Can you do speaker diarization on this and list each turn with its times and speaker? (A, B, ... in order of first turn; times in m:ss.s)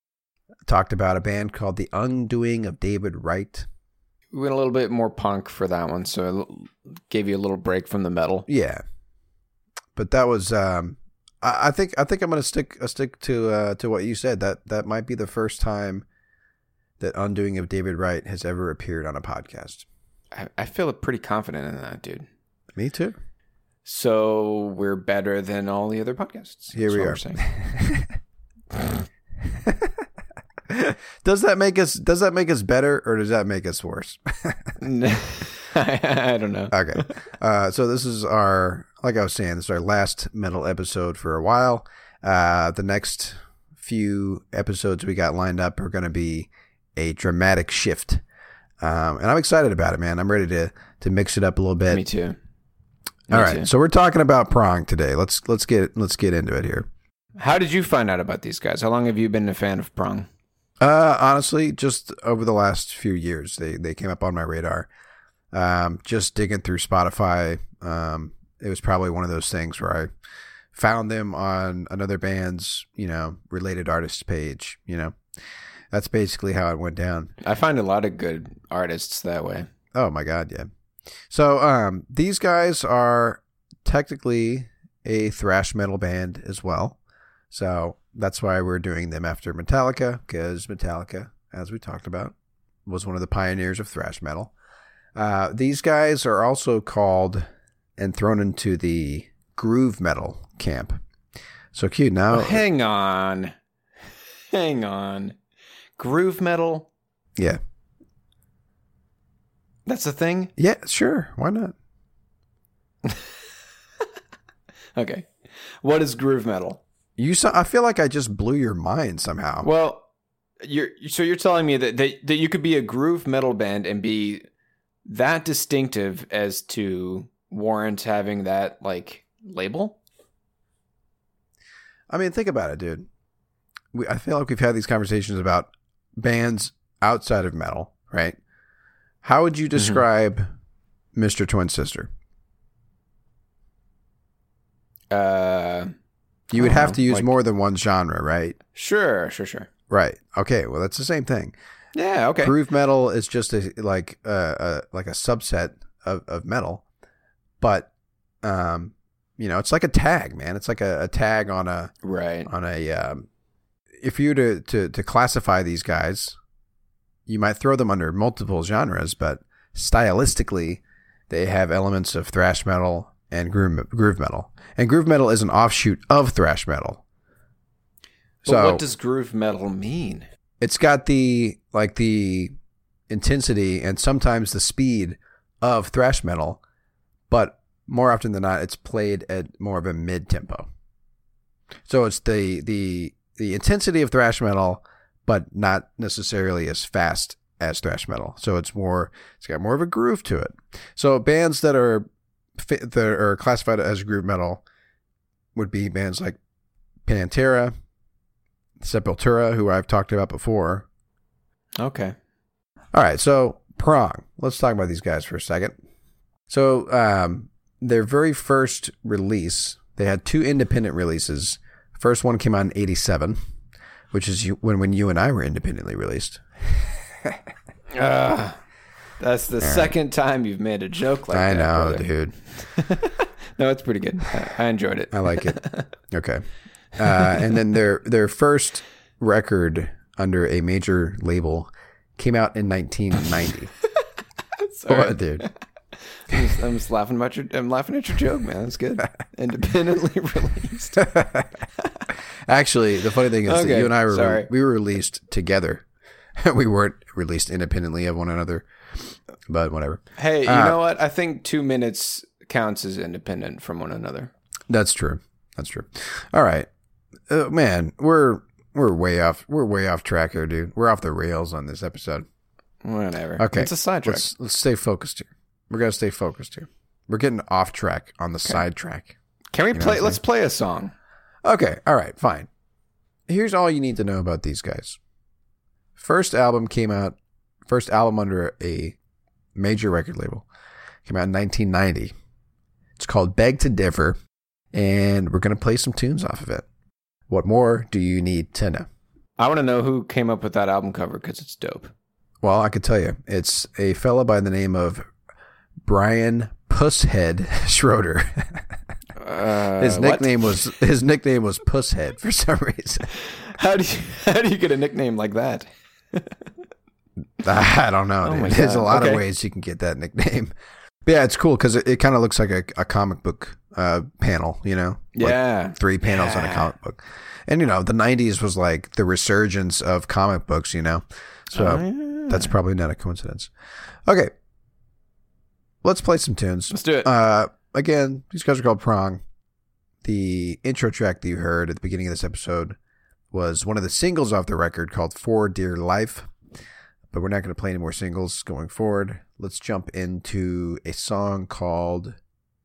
0:00.6-0:03.7 A
0:04.3-0:08.4 B
0:08.5-0:08.8 A
0:09.9-0:16.0 A
0:17.0-0:19.8 A
0:20.3-0:22.3 B
0:22.7-0:23.2 A
0:23.8-0:27.4 B
0:26.7-0:28.1 A
0:29.6-0:30.0 A
0:30.7-0:34.8 A
0:34.8-0:37.1 B
0:36.7-0:48.2 A
0:48.8-0:52.0 A
0:51.9-0:52.4 B
0:53.3-0:53.7 B
0:53.3-0:56.9 A
0:57.4-1:00.3 B
1:00.8-1:04.9 A
1:05.5-1:10.1 A
1:10.7-1:15.2 A
1:15.9-1:17.3 A
1:17.4-1:19.7 B
1:19.9-1:20.7 A
1:21.3-1:27.0 A
1:27.5-1:32.3 A
1:32.8-1:34.5 A
1:35.1-1:41.0 A
1:41.7-1:42.6 A
1:42.3-1:43.5 B
1:44.5-1:45.4 B
1:46.0-1:46.9 B
1:49.8-1:50.5 B
1:50.6-1:51.7 A
1:54.9-1:56.8 B
1:57.2-1:59.7 A
1:59.6-2:00.0 B
2:00.6-2:04.4 B
2:05.0-2:10.0 B
2:12.1-2:13.1 A
2:13.9-2:18.4 A
2:19.2-2:20.5 A
2:19.8-2:20.0 B
2:21.1-2:22.1 A
2:25.1-2:25.9 B
2:26.5-2:28.6 A
2:26.6-2:27.3 B
2:28.7-2:29.7 B
2:29.9-2:31.5 A
2:31.9-2:32.6 B
2:32.4-2:36.8 A
2:37.6-2:37.9 A
2:38.4-2:41.9 A
2:42.0-2:42.5 B
2:42.4-2:43.2 A
2:44.0-2:46.4 A
2:47.3-2:57.0 A
2:58.4-2:58.8 A
2:58.4-3:00.3 B
3:00.6-3:02.6 A
3:03.1-3:06.6 A
3:07.3-3:10.7 A
3:11.8-3:24.6 A
3:25.5-3:26.4 A
3:27.0-3:27.8 A
3:28.8-3:30.9 A
3:31.8-3:32.2 B
3:32.9-3:35.8 A
3:36.5-3:43.4 A
3:44.1-3:47.4 A
3:47.9-3:48.6 B
3:49.2-3:55.9 B
3:49.6-3:49.9 A
3:51.3-3:52.4 A
3:55.1-3:56.4 A
3:57.0-4:03.7 A
4:04.6-4:05.5 B
4:04.9-4:05.4 A
4:06.2-4:11.1 B
4:11.1-4:11.5 A
4:12.5-4:15.8 A
4:13.4-4:14.5 B
4:16.4-4:20.8 A
4:20.2-4:24.3 B
4:24.7-4:26.7 A
4:27.3-4:32.3 A
4:32.8-4:34.2 B
4:33.4-4:39.1 A
4:39.5-4:40.9 B
4:39.7-4:40.2 A
4:41.4-4:42.5 A
4:43.3-4:45.0 A
4:46.0-4:49.0 A
4:49.6-4:50.4 A
4:51.0-4:52.1 A
4:53.0-4:54.2 A
4:54.7-4:56.7 A
4:57.3-4:58.9 A
4:59.4-5:01.9 B
5:02.4-5:05.1 A
5:05.8-5:08.7 A
5:09.2-5:10.5 B
5:09.8-5:13.1 A
5:13.5-5:16.4 B
5:17.4-5:33.5 A
5:18.2-5:19.2 B
5:25.1-5:26.7 B
5:31.5-5:32.5 B
5:34.0-5:34.3 A
5:35.8-5:39.2 A
5:36.7-5:37.1 B
5:40.0-5:42.8 A
5:43.3-5:46.3 A
5:47.1-5:52.2 A